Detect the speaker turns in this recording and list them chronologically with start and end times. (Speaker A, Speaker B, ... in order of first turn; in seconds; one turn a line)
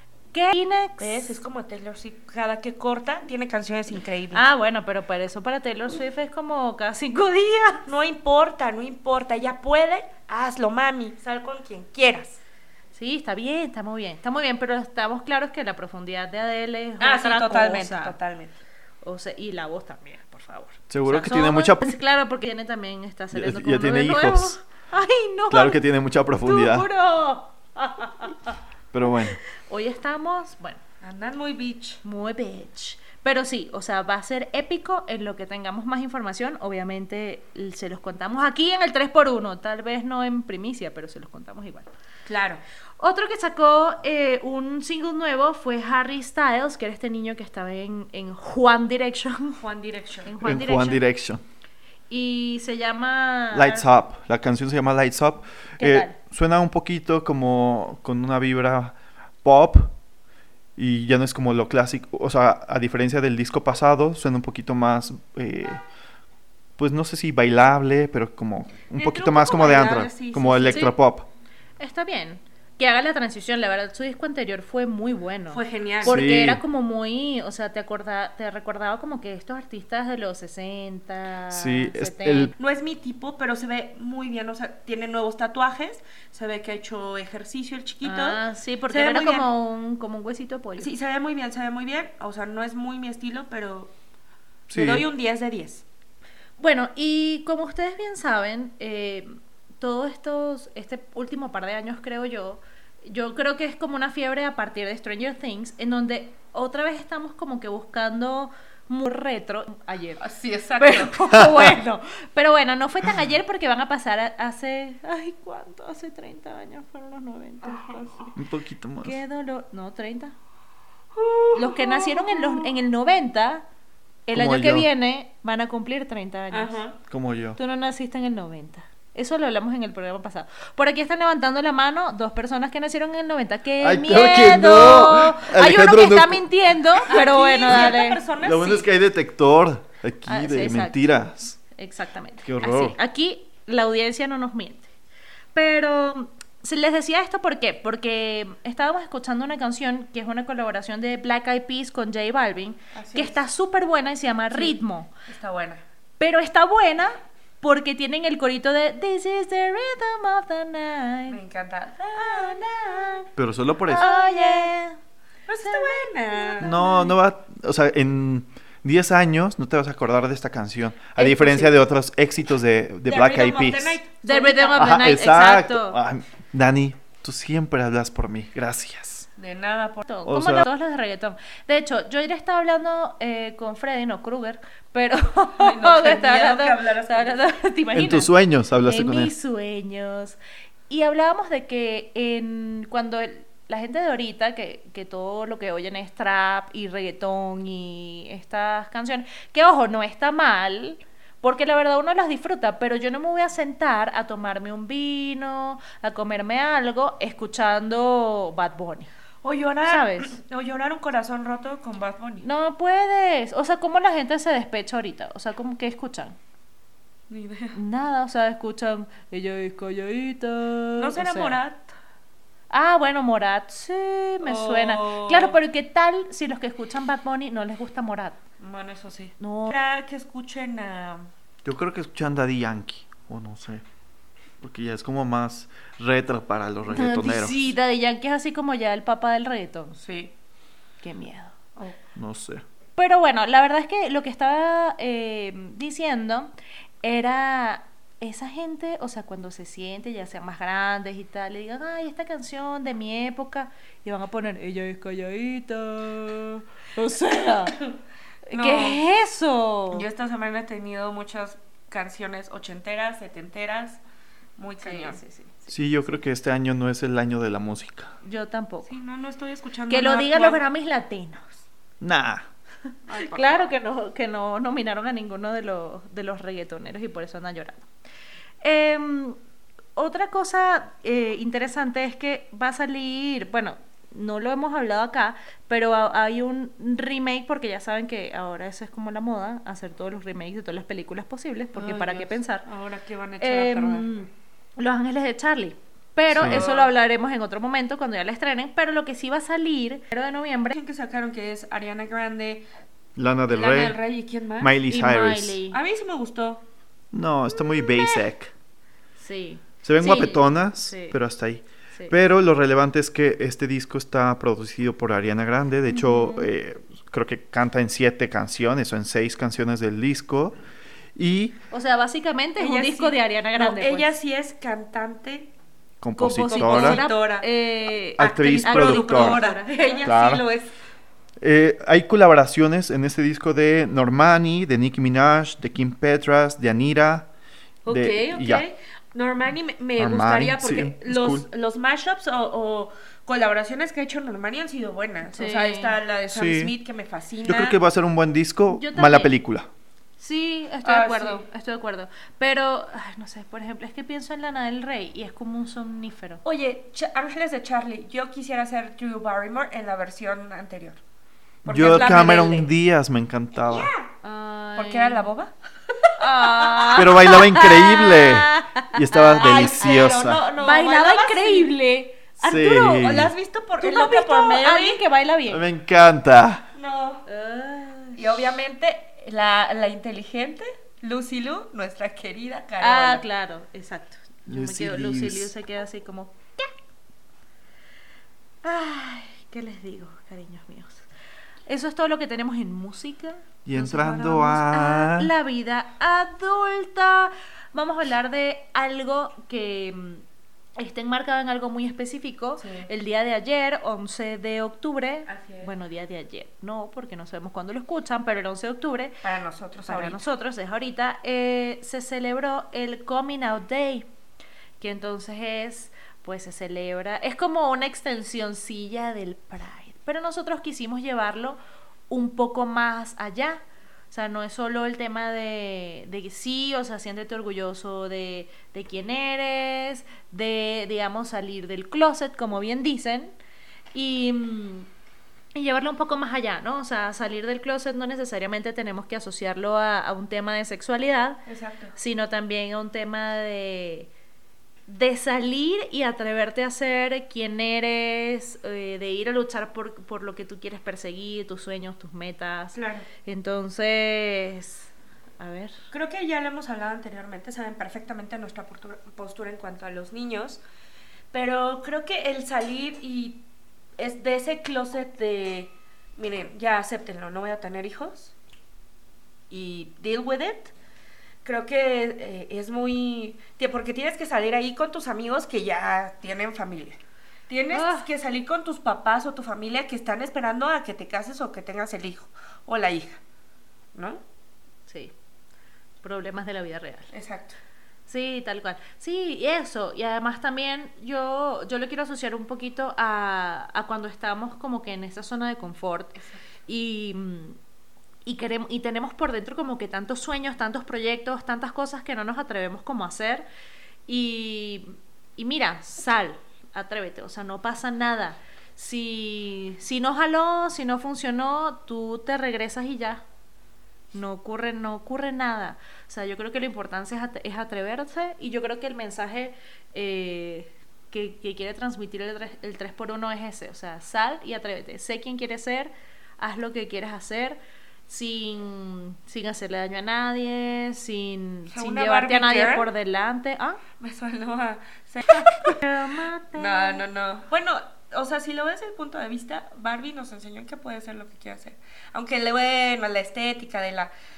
Speaker A: 0.3-1.4
Speaker B: 1.0-4.5
Speaker A: 4.3-7.9
Speaker B: 7.8-12.4
Speaker A: 12.9-18.1
Speaker B: 17.0-18.5
Speaker A: 19.0-25.8
Speaker C: 20.9-21.9
Speaker C: 23.3-24.6
Speaker C: 25.5-26.9
Speaker A: 26.4-28.6
Speaker C: 28.9-29.4
Speaker A: 29.6-30.8
Speaker B: 31.0-32.0
Speaker A: 32.0-41.9
Speaker B: 42.2-42.6
Speaker A: 43.0-49.6
Speaker B: 49.6-50.3
Speaker A: 50.2-51.0
Speaker C: 50.4-51.4
Speaker A: 52.1-53.9
Speaker C: 53.5-59.9
Speaker A: 55.8-56.1
Speaker C: 60.8-65.8
Speaker C: 66.8-71.3
Speaker B: 69.0-70.9
Speaker A: 70.7-70.9
Speaker A: 71.8-82.5
Speaker B: 75.5-76.2
Speaker C: 76.0-76.6
Speaker C: 81.5-82.5
Speaker B: 82.6-89.5
Speaker A: 88.0-90.9
Speaker B: 90.8-93.9
Speaker B: 94.7-95.8
Speaker C: 94.7-95.1
Speaker A: 96.6-110.2
Speaker B: 110.2-111.2
Speaker A: 110.8-118.4
Speaker C: 111.3-111.7
Speaker B: 117.7-118.0
Speaker C: 118.3-119.2
Speaker A: 119.0-120.3
Speaker B: 121.1-122.7
Speaker A: 121.5-123.6
Speaker A: 124.2-126.8
Speaker C: 124.3-124.9
Speaker B: 126.5-127.0
Speaker C: 127.1-127.6
Speaker A: 127.5-138.2
Speaker C: 133.8-136.4
Speaker B: 137.1-138.9
Speaker C: 138.4-141.6
Speaker A: 140.3-141.0
Speaker A: 141.7-144.9
Speaker C: 142.4-142.9
Speaker A: 145.5-155.1
Speaker B: 152.9-153.4
Speaker B: 154.5-155.8
Speaker A: 156.2-161.4
Speaker B: 161.3-163.3
Speaker A: 162.1-163.3
Speaker C: 163.4-164.1
Speaker B: 163.9-164.7
Speaker A: 163.9-165.0
Speaker B: 165.5-166.8
Speaker A: 165.6-167.1
Speaker C: 166.6-174.0
Speaker B: 171.2-171.7
Speaker B: 173.1-174.9
Speaker A: 174.2-176.0
Speaker C: 174.7-179.3
Speaker B: 179.4-180.0
Speaker A: 180.0-190.4
Speaker C: 180.2-180.7
Speaker B: 185.6-187.5
Speaker C: 187.9-189.3
Speaker A: 190.9-209.1
Speaker B: 209.4-212.4
Speaker A: 209.8-210.3
Speaker A: 212.4-216.4
Speaker B: 217.3-217.8
Speaker A: 217.7-221.6
Speaker B: 221.0-221.9
Speaker A: 222.7-228.4
Speaker B: 224.4-225.6
Speaker B: 228.6-231.3
Speaker A: 229.4-229.7
Speaker C: 231.6-233.8
Speaker C: 234.6-237.6
Speaker A: 236.9-239.9
Speaker B: 239.9-240.3
Speaker A: 241.0-241.5
Speaker C: 242.2-242.6
Speaker A: 242.9-246.5
Speaker A: 247.0-257.8
Speaker A: 258.5-260.1
Speaker B: 258.5-259.0
Speaker B: 259.9-264.0
Speaker B: 264.6-265.2
Speaker A: 264.8-265.7
Speaker C: 265.7-268.1
Speaker A: 268.2-268.9
Speaker B: 268.9-270.6
Speaker A: 269.9-271.6
Speaker C: 272.0-272.5
Speaker B: 273.1-273.7
Speaker A: 273.1-277.9
Speaker A: 278.6-279.4
Speaker A: 279.9-292.6
Speaker B: 291.7-294.1
Speaker A: 293.4-300.7
Speaker B: 296.3-296.9
Speaker C: 296.3-296.6
Speaker B: 300.7-302.7
Speaker C: 303.1-304.0
Speaker B: 303.5-304.8
Speaker C: 304.6-305.6
Speaker A: 304.9-305.8
Speaker B: 305.7-306.6
Speaker C: 307.1-308.5
Speaker A: 309.2-311.2
Speaker C: 309.8-320.6
Speaker A: 315.9-316.5
Speaker C: 321.1-321.6
Speaker A: 321.7-324.1
Speaker B: 322.6-325.5
Speaker C: 326.0-327.0
Speaker A: 326.2-330.0
Speaker B: 326.5-327.5
Speaker C: 328.2-329.4
Speaker B: 328.2-330.7
Speaker C: 330.0-330.4
Speaker C: 331.4-337.3
Speaker B: 337.8-347.8
Speaker C: 337.9-338.6
Speaker C: 340.0-341.4
Speaker A: 345.2-346.0
Speaker C: 346.3-346.7
Speaker C: 347.4-349.7
Speaker A: 348.7-349.3
Speaker A: 350.2-356.4
Speaker B: 350.8-351.4
Speaker B: 356.4-361.0
Speaker B: 361.6-362.7
Speaker C: 361.6-363.9
Speaker B: 363.6-364.1
Speaker A: 364.2-365.3
Speaker B: 364.8-367.1
Speaker A: 366.2-373.1
Speaker C: 366.9-370.4
Speaker B: 369.3-371.7
Speaker C: 372.4-373.3
Speaker B: 372.7-375.0
Speaker A: 373.8-375.6
Speaker C: 375.5-376.6
Speaker B: 376.7-377.2
Speaker A: 377.2-378.2
Speaker B: 378.1-383.2
Speaker A: 382.8-386.7
Speaker C: 384.5-385.5
Speaker A: 388.6-391.1
Speaker A: 391.7-400.2
Speaker C: 393.6-395.3
Speaker A: 400.8-409.2
Speaker B: 402.6-402.9
Speaker B: 405.3-405.7
Speaker B: 409.2-410.2
Speaker A: 409.8-414.1
Speaker A: 414.8-421.6
Speaker A: 422.1-433.3
Speaker A: 433.9-434.9
Speaker A: 435.5-441.4
Speaker B: 441.4-441.9
Speaker A: 441.9-444.1
Speaker A: 444.9-455.7
Speaker B: 452.7-453.1
Speaker B: 455.9-460.6
Speaker B: 461.3-463.4
Speaker B: 464.0-468.3
Speaker B: 469.5-470.7
Speaker B: 471.4-483.2
Speaker A: 477.7-478.1
Speaker B: 483.9-484.2
Speaker A: 484.9-485.1
Speaker A: 486.0-487.1
Speaker B: 487.1-487.6
Speaker A: 488.1-497.6
Speaker A: 498.2-503.4
Speaker A: 504.1-513.2
Speaker A: 514.1-533.8
Speaker B: 531.7-532.9
Speaker B: 534.0-535.8
Speaker A: 535.4-537.0
Speaker B: 536.5-544.1